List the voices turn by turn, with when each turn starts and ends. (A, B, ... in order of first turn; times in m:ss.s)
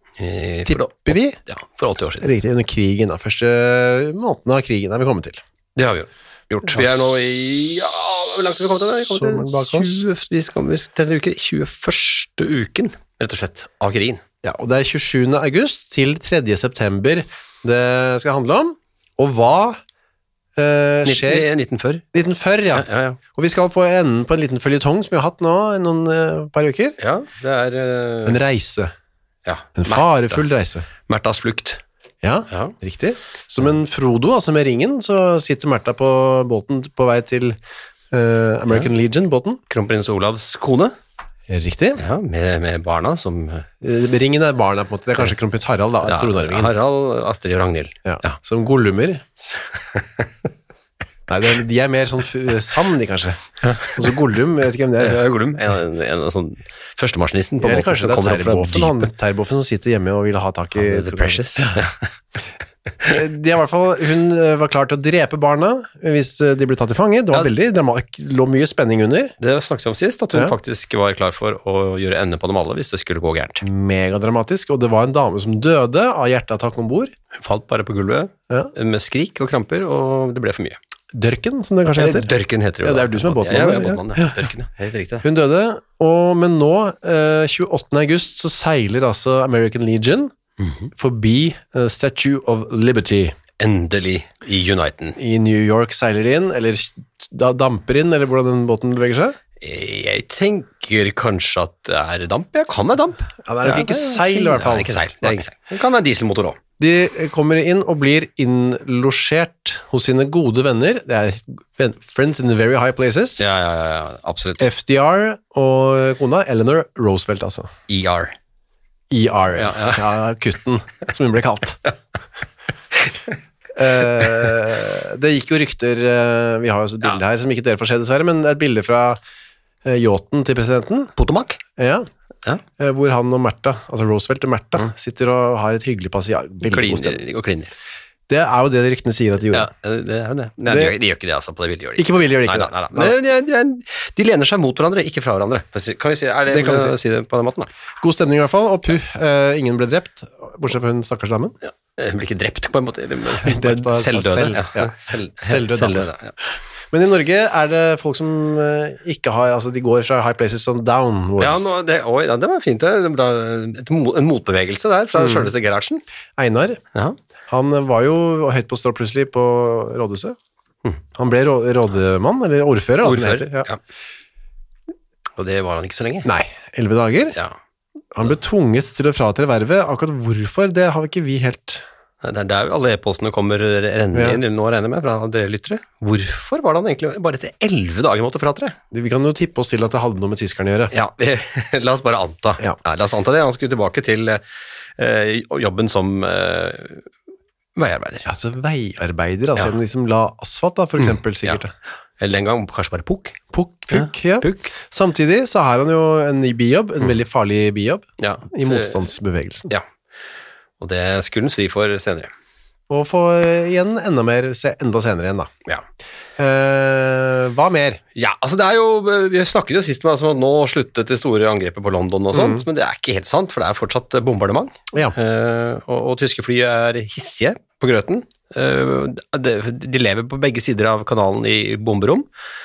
0:00.2-0:02.3 A
0:00.7-0:01.4 B
0:02.2-0:05.4 B
0:05.8-0:14.2 A
0:06.7-0:07.0 B
0:09.1-0:10.0 B
0:14.4-0:19.8 B
0:20.6-0:21.5 B
0:21.0-0:22.0 A
0:22.1-0:27.0 B
0:22.7-0:23.2 A
0:27.0-0:28.4 A
0:28.2-0:28.9 B
0:29.5-0:30.4 A
0:29.8-0:30.9 B
0:31.1-0:31.8 A
0:32.2-0:37.6 B
0:38.1-0:39.6 B
0:39.7-0:41.0 A
0:41.5-0:42.0 B
0:42.0-0:43.7 A
0:43.8-0:46.7 B
0:46.0-0:48.4 A
0:48.0-0:49.3 B
0:49.9-0:50.3 A
0:51.3-0:55.2 B
0:53.6-0:54.0 A
0:55.0-0:59.1 A
0:57.6-1:01.8 B
1:00.8-1:02.1 A
1:03.0-1:09.4 B
1:09.4-1:13.6 A
1:13.6-1:17.1 B
1:17.3-1:20.8 A
1:21.1-1:22.3 B
1:21.9-1:25.2 A
1:22.8-1:24.5 B
1:25.2-1:30.3 B
1:30.6-1:30.9 A
1:30.9-1:33.4 B
1:33.6-1:35.2 A
1:35.2-1:39.4 B
1:39.6-1:46.6 A
1:43.4-1:45.4 B
1:46.8-1:53.4 B
1:53.4-1:54.7 A
1:54.6-1:57.7 B
1:57.9-1:58.3 A
1:59.1-2:01.8 B
1:59.6-2:00.0 A
2:03.8-2:09.2 B
2:09.8-2:11.1 B
2:11.2-2:11.6 A
2:11.8-2:12.1 B
2:12.8-2:17.2 B
2:16.6-2:17.7 A
2:18.3-2:19.7 B
2:19.5-2:27.7 A
2:20.6-2:21.0 B
2:22.0-2:23.2 B
2:26.5-2:27.0 B
2:28.0-2:31.6 B
2:31.6-2:36.4 A
2:33.4-2:34.9 B
2:35.4-2:36.1 B
2:36.9-2:41.8 B
2:41.4-2:46.0 A
2:45.2-2:45.5 B
2:46.4-2:46.8 B
2:47.5-2:50.4 B
2:51.2-2:53.7 B
2:53.0-2:53.8 A
2:55.4-2:56.3 A
2:56.2-2:57.4 B
2:58.1-3:01.9 B
3:02.2-3:08.8 A
3:04.1-3:04.4 B
3:08.9-3:10.9 B
3:10.9-3:14.4 A
3:15.0-3:17.1 A
3:17.8-3:18.3 A
3:18.3-3:21.7 B
3:22.2-3:24.7 A
3:23.5-3:29.7 B
3:28.2-3:29.0 A
3:30.8-3:32.3 A
3:32.9-3:35.5 B
3:36.4-3:38.0 B
3:38.2-3:52.3 A
3:42.3-3:42.6 B